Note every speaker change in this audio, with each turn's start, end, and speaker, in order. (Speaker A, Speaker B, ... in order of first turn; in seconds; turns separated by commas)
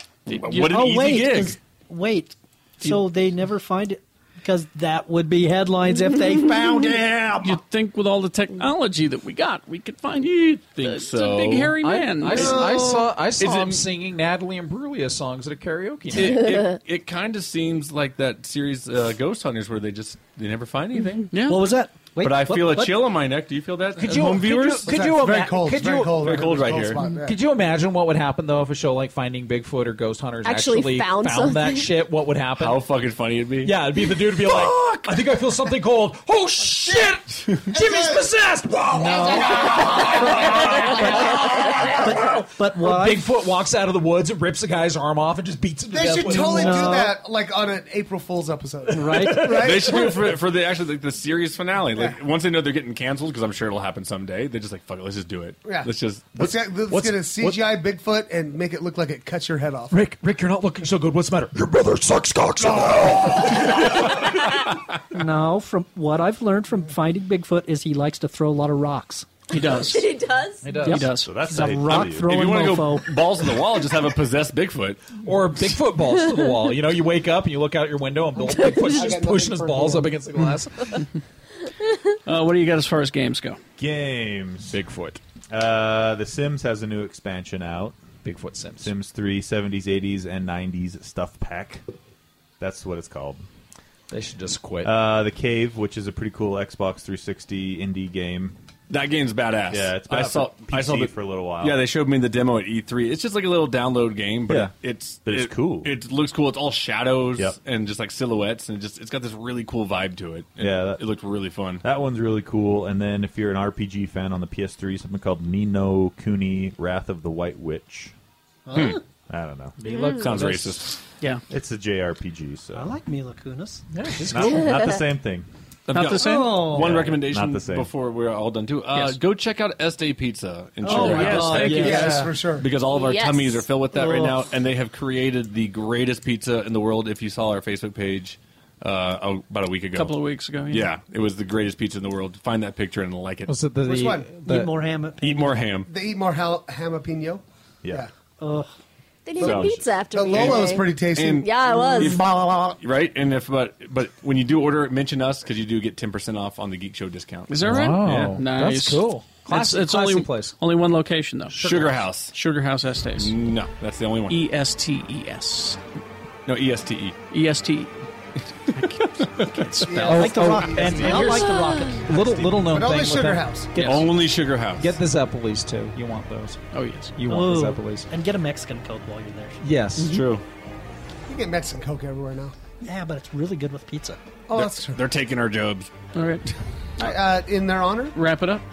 Speaker A: 0.3-1.6, Speaker B: 0.4-7.6, Speaker C: 7.4-12.6, Speaker A: 10.8-11.7, Speaker D: 11.8-16.4, Speaker E: 12.3-13.1, Speaker A: 12.5-12.7, Speaker A: 13.4-13.8, Speaker A: 16.1-21.4, Speaker C: 21.3-21.6, Speaker B: 21.4-23.1, Speaker A: 22.2-25.1, Speaker D: 24.0-26.4, Speaker E: 24.9-27.4, Speaker A: 26.2-27.0, Speaker D: 27.0-32.8, Speaker F: 30.4-31.9, Speaker A: 32.6-33.8, Speaker D: 33.6-47.0, Speaker B: 38.9-43.3, Speaker E: 39.5-39.9, Speaker E: 45.9-50.2, Speaker B: 46.2-47.1, Speaker B: 48.9-49.9, Speaker D: 49.0-50.1, Speaker A: 49.5-56.4, Speaker E: 55.6-60.0, Speaker D: 56.4-57.6, Speaker D: 59.9-64.0, Speaker B: 65.1-69.3, Speaker C: 69.5-70.1, Speaker F: 69.6-70.8, Speaker D: 70.6-71.2, Speaker C: 70.8-71.3, Speaker G: 71.2-72.3, Speaker B: 71.3-73.4, Speaker A: 71.9-75.2, Speaker D: 75.2-81.1, Speaker E: 78.7-80.2, Speaker C: 82.2-83.6, Speaker G: 83.8-84.8, Speaker D: 84.7-85.2, Speaker G: 85.5-88.0, Speaker D: 88.2-88.9, Speaker G: 88.8-91.8, Speaker G: 92.6-93.4, Speaker D: 94.1-94.9, Speaker G: 94.8-98.6, Speaker A: 98.9-111.8, Speaker G: 99.7-101.9, Speaker G: 105.2-105.9, Speaker G: 110.6-111.0, Speaker G: 111.8-118.1, Speaker B: 118.7-119.0, Speaker A: 118.7-119.0, Speaker G: 119.3-119.8, Speaker D: 119.8-120.8, Speaker F: 119.9-120.3, Speaker A: 120.2-121.0, Speaker G: 121.5-123.0, Speaker B: 122.7-123.8, Speaker D: 123.9-124.7, Speaker G: 124.3-125.5, Speaker F: 124.4-125.1, Speaker A: 125.9-140.1, Speaker C: 125.9-126.8, Speaker B: 126.2-127.0, Speaker G: 126.8-127.9, Speaker C: 128.9-129.2, Speaker B: 130.8-132.4, Speaker C: 130.8-132.1, Speaker E: 131.6-132.7, Speaker F: 132.8-133.7, Speaker B: 133.9-134.5, Speaker C: 139.9-140.9, Speaker A: 140.7-143.5, Speaker D: 143.4-144.8, Speaker E: 143.8-144.3, Speaker B: 144.4-145.7, Speaker A: 145.2-145.9, Speaker E: 145.9-148.1, Speaker B: 148.4-148.7, Speaker F: 149.2-152.3, Speaker A: 149.4-158.3, Speaker G: 149.4-149.9, Speaker E: 149.4-152.8, Speaker C: 157.5-163.3, Speaker D: 157.6-160.6, Speaker A: 161.6-162.3, Speaker D: 161.6-161.9, Speaker A: 163.2-164.4, Speaker C: 164.3-165.8, Speaker A: 166.4-167.2, Speaker C: 167.3-167.9, Speaker B: 168.8-169.1, Speaker A: 169.3-169.7, Speaker C: 169.4-170.1, Speaker B: 169.8-172.1, Speaker E: 169.8-173.7, Speaker D: 170.1-176.6, Speaker A: 173.8-174.9, Speaker C: 176.7-177.2, Speaker D: 177.2-178.1, Speaker B: 177.2-179.6, Speaker D: 179.6-180.2, Speaker C: 180.0-180.3, Speaker A: 180.0-180.4, Speaker E: 181.3-182.6, Speaker B: 182.8-184.2, Speaker E: 184.5-185.0, Speaker A: 184.5-185.9, Speaker C: 186.2-186.5, Speaker E: 187.0-188.2, Speaker C: 188.1-188.6